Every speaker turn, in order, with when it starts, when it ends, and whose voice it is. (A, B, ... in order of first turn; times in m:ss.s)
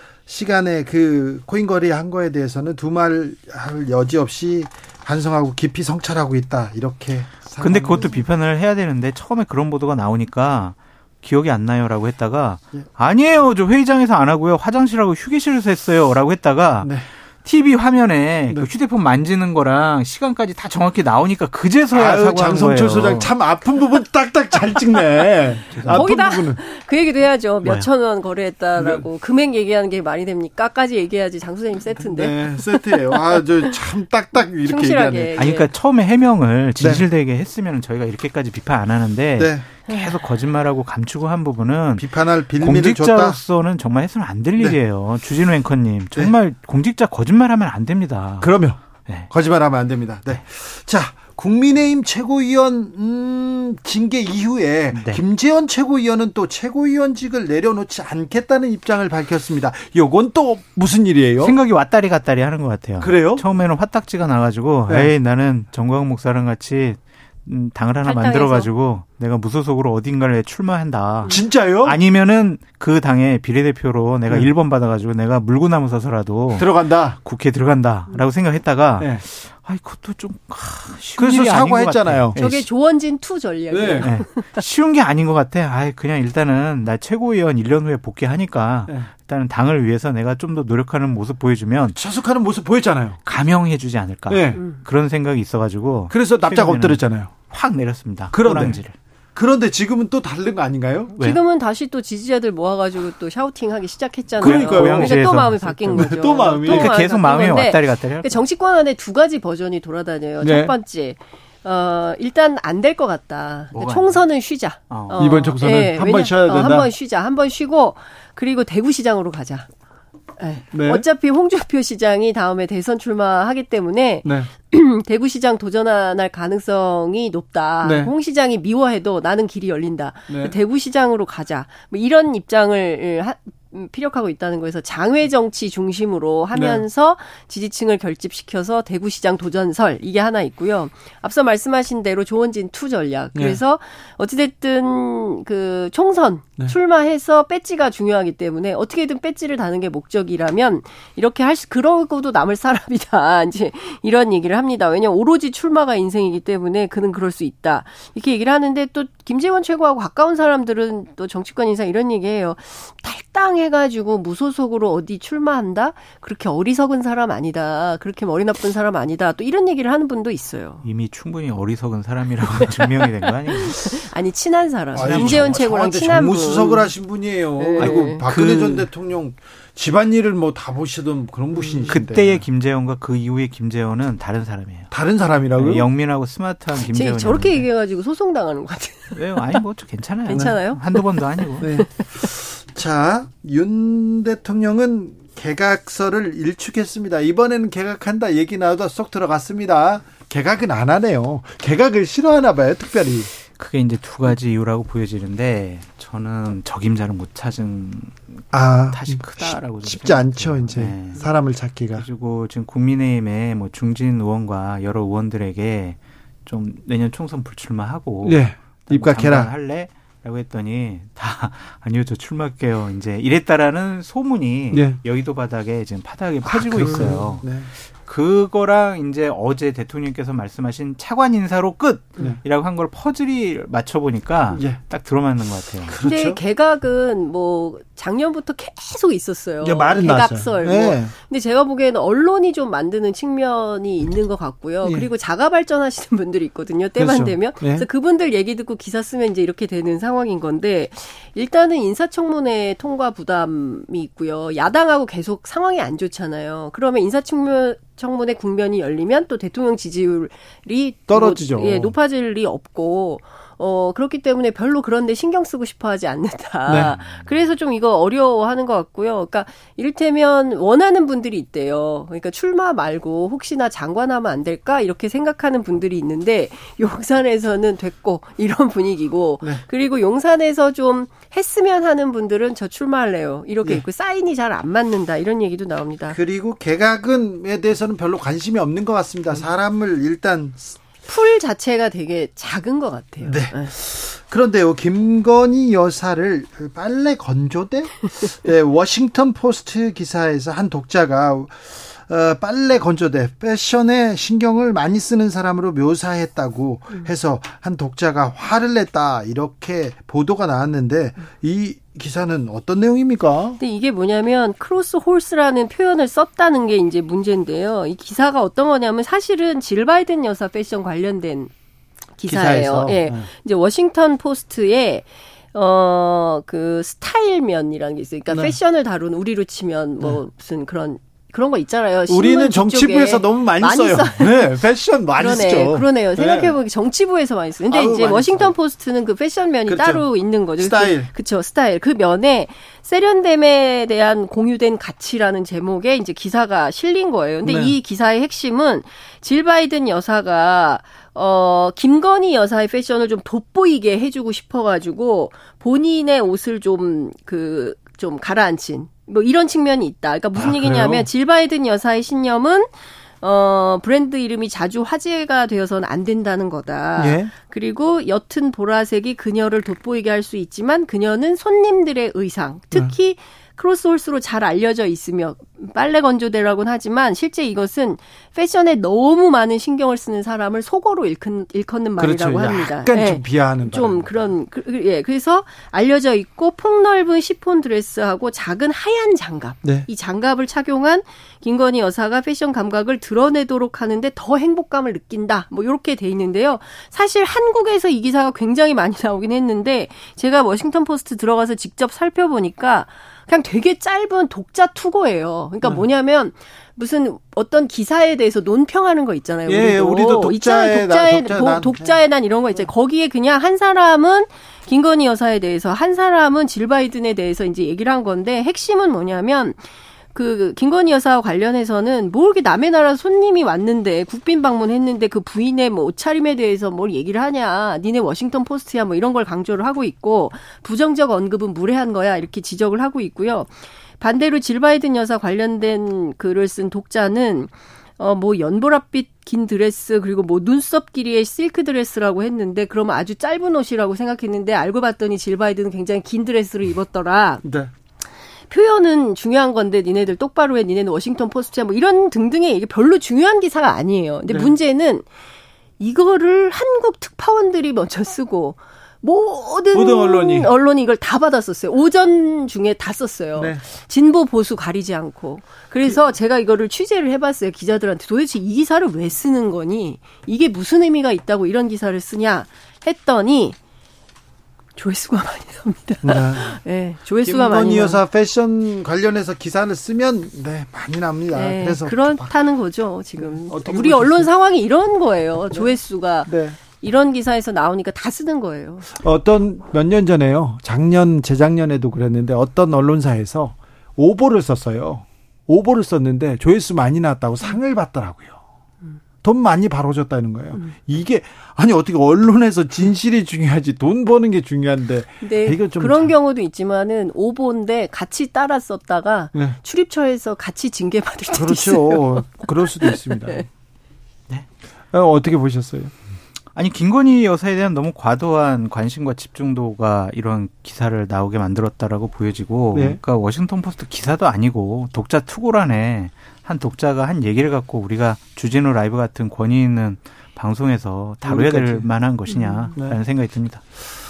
0:00.3-0:08.2 A
0:07.6-0:23.3 B
0:16.8-0:17.1 A
0:21.9-0:26.6 A
0:25.7-0:26.1 B
0:25.9-0:33.8 C
0:27.6-0:27.9 B
0:28.8-0:29.1 A
0:32.0-0:35.3 A
0:34.6-0:35.7 C
0:35.4-0:49.3 B
0:36.8-0:37.1 A
0:39.4-0:39.7 A
0:39.9-0:40.2 C
0:42.0-0:43.4 A
0:48.4-1:01.6 A
0:54.9-0:55.2 B
1:01.4-1:16.7 B
1:03.0-1:03.4 A
1:04.9-1:05.1 A
1:08.0-1:08.7 C
1:11.3-1:12.0 A
1:16.6-1:17.2 A
1:17.2-1:22.7 B
1:21.2-1:22.4 A
1:22.4-1:24.5 C
1:23.7-1:24.1 A
1:24.0-1:32.0 B
1:32.0-1:33.2 A
1:33.2-1:39.0 B
1:34.3-1:34.6 A
1:34.6-1:34.8 C
1:36.1-1:37.3 A
1:38.3-1:38.8 A
1:39.4-1:41.1 A
1:41.2-1:59.7 C
1:44.4-1:48.4 B
1:44.4-1:46.9 A
1:50.4-1:50.7 A
1:53.7-1:54.2 B
1:54.9-1:55.3 B
1:55.2-1:56.9 A
2:00.4-2:50.8 C
2:00.7-2:01.0 A
2:04.2-2:04.5 A
2:07.8-2:08.1 A
2:10.3-2:10.6 A
2:16.5-2:16.8 A
2:23.3-2:23.6 A
2:50.8-2:54.1 B
2:52.6-2:56.9 C
2:54.9-3:02.4 A
2:55.0-2:55.6 B
2:57.6-2:58.3 C
2:57.8-2:58.9 B
3:01.8-3:04.9 B
3:04.9-3:05.9 A
3:05.6-3:07.7 B
3:06.8-3:09.6 C
3:09.1-3:11.7 B
3:10.3-3:11.2 C
3:10.3-3:10.6 A
3:11.6-3:23.3 A
3:11.7-3:12.0 C
3:23.6-3:31.3 B
3:28.5-3:32.1 A
3:32.0-3:56.0 B
3:38.2-3:39.5 A
3:44.7-3:45.0 A
3:46.4-3:47.7 A
3:54.5-3:54.8 A
3:55.9-3:56.4 A
3:55.9-4:46.2 C
3:59.6-4:01.1 A
4:04.8-4:05.1 A
4:07.0-4:07.9 A
4:21.1-4:21.9 A
4:26.7-4:27.0 A
4:26.7-4:27.3 B
4:46.1-4:50.8 A
4:51.1-4:53.7 C
4:53.2-5:13.6 A
5:13.6-5:21.5 C
5:22.2-5:34.6 C
5:22.2-5:23.3 A
5:28.3-5:28.6 A
5:32.1-5:36.6 A
5:35.2-6:02.7 C
5:37.7-5:38.6 A
5:39.7-5:40.0 A
5:40.6-5:41.1 A
5:47.4-5:47.8 A
6:00.4-6:01.1 A
6:03.2-6:59.6 C
6:07.0-6:07.3 A
6:22.0-6:24.2 A
6:49.5-6:52.0 A
7:00.1-7:27.4 C
7:27.4-7:27.7 A
7:28.5-7:35.1 C
7:34.3-7:34.5 A
7:35.8-7:53.6 C
7:39.7-7:40.5 A
7:43.4-7:43.6 A
7:54.8-7:58.0 C
7:56.0-7:56.6 A
7:57.2-8:02.3 A
8:01.3-8:08.9 C
8:03.2-8:04.3 A
8:06.3-8:06.6 A
8:08.9-8:18.4 A
8:19.2-8:26.1 A
8:25.2-8:33.4 C
8:31.3-8:33.5 A
8:34.9-8:35.9 A
8:36.6-8:53.6 B
8:42.7-8:43.0 A
8:51.2-8:51.9 A
8:52.4-8:52.7 C